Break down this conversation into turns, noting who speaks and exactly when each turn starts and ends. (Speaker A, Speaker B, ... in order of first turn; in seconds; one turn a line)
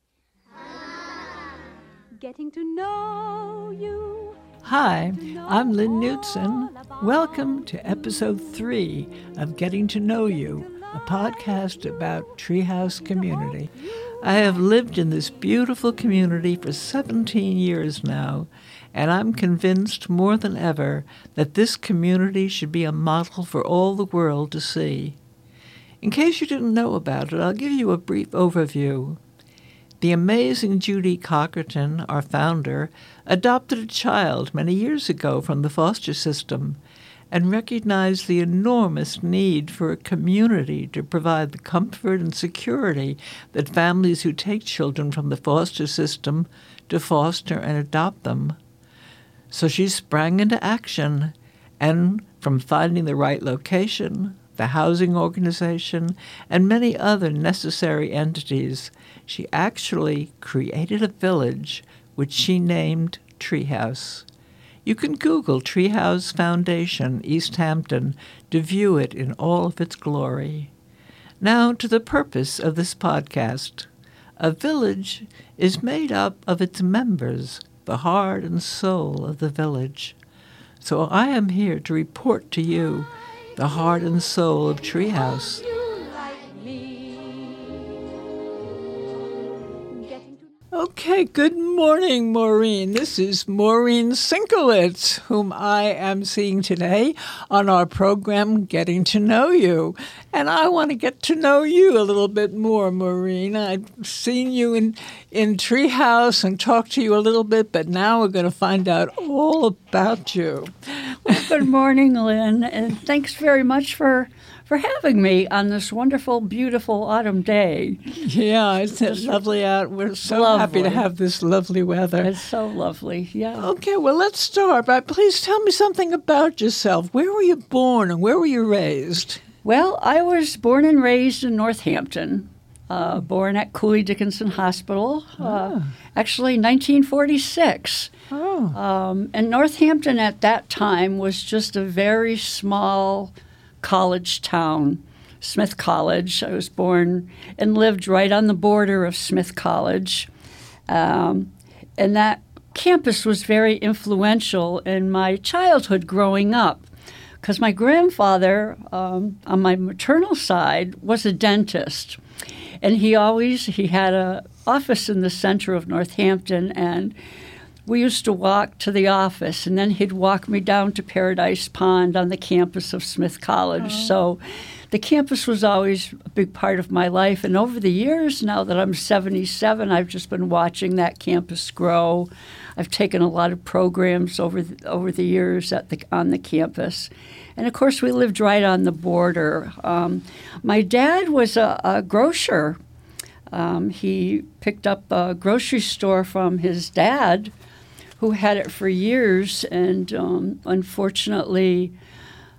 Speaker A: 0.7-1.3
Speaker A: 2.2-4.5
Speaker B: 4.6-25.2
Speaker A: 5.1-8.7
Speaker A: 9.9-15.5
Speaker B: 26.0-29.2
Speaker B: 30.0-36.8
Speaker B: 37.3-48.6
Speaker B: 49.5-64.3
Speaker B: 64.8-70.7
Speaker B: 71.4-80.2
Speaker B: 80.8-85.6
Speaker A: 85.3-88.0
Speaker A: 88.9-90.6
Speaker B: 90.7-111.6
Speaker C: 111.2-118.2
Speaker B: 118.1-122.3
Speaker C: 119.0-119.4
Speaker C: 120.3-121.0
Speaker C: 122.2-123.7
Speaker B: 123.6-129.4
Speaker C: 129.6-138.1
Speaker B: 135.4-135.9
Speaker B: 138.3-138.8
Speaker C: 138.7-150.3
Speaker C: 150.9-156.9
Speaker C: 157.4-162.2
Speaker C: 162.8-167.2
Speaker C: 167.9-174.4
Speaker B: 173.8-174.1
Speaker C: 174.9-192.8
Speaker C: 193.5-197.5
Speaker C: 198.2-201.9